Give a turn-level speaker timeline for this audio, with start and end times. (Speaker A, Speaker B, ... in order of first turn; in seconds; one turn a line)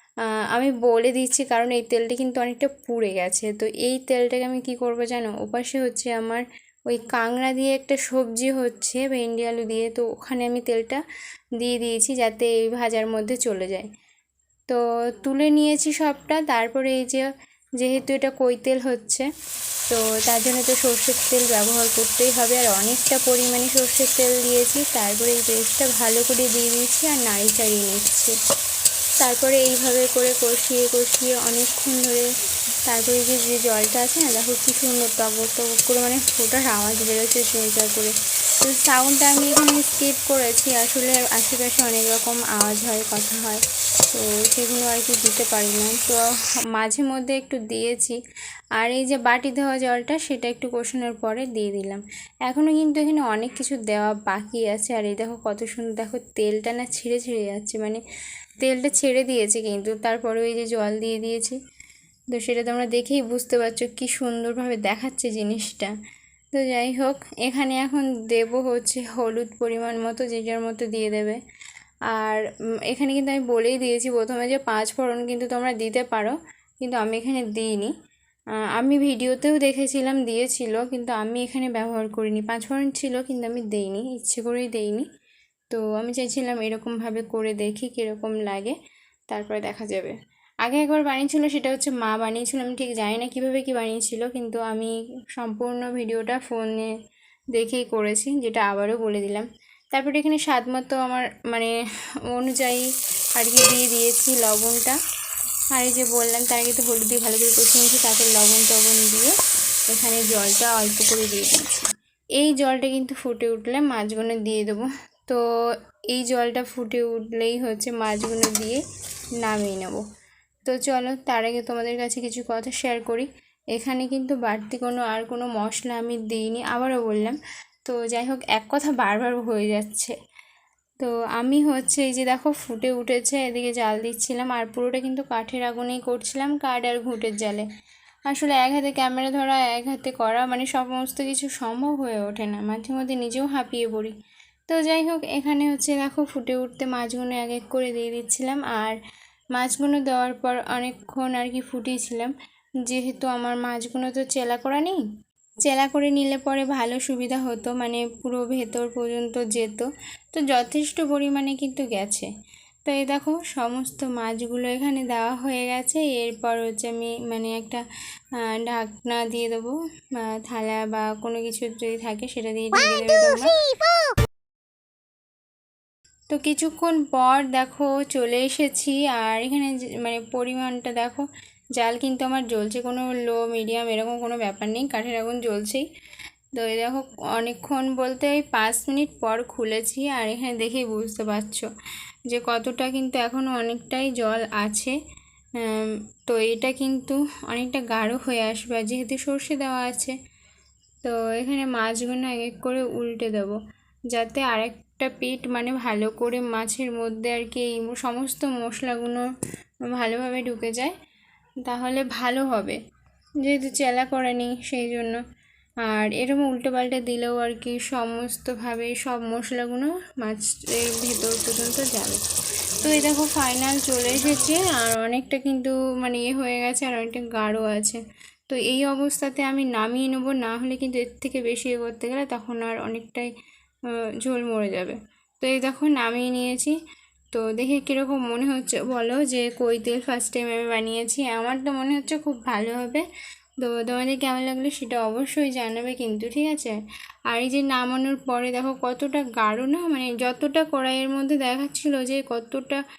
Speaker A: 0.5-11.0
Speaker A: 11.6-13.9
Speaker A: 14.7-17.3
Speaker A: 17.8-19.3
Speaker A: 19.9-28.3
Speaker A: 29.2-32.3
Speaker A: 32.9-48.2
Speaker A: 48.8-58.0
Speaker A: 58.6-61.6
Speaker A: 62.3-65.9
Speaker A: 66.5-71.4
Speaker A: 72.1-77.9
Speaker A: 78.8-85.1
Speaker A: 85.7-88.8
Speaker A: 89.3-96.9
Speaker A: 97.5-101.7
Speaker A: 102.3-105.0
Speaker A: 105.7-109.3
Speaker A: 109.9-111.8
Speaker A: 112.4-115.4
Speaker A: 116.1-118.8
Speaker A: 119.4-120.0
Speaker A: 120.7-130.2
Speaker A: 131.0-137.7
Speaker A: 138.3-144.2
Speaker A: 144.7-149.0
Speaker A: 149.5-152.3
Speaker A: 152.8-155.0
Speaker A: 155.7-162.3
Speaker A: 162.9-167.8
Speaker A: 168.5-173.6
Speaker A: 176.3-185.9
Speaker A: 186.6-191.7
Speaker A: 192.3-195.0
Speaker A: 195.6-200.2
Speaker A: 201.0-203.6
Speaker A: 204.1-209.3
Speaker A: 209.9-210.9
Speaker A: 211.7-212.8
Speaker A: 213.4-215.2
Speaker A: 215.9-222.2
Speaker A: 222.8-233.3
Speaker A: 234.2-236.8
Speaker A: 237.3-243.1
Speaker A: 243.6-246.8
Speaker A: 247.3-252.8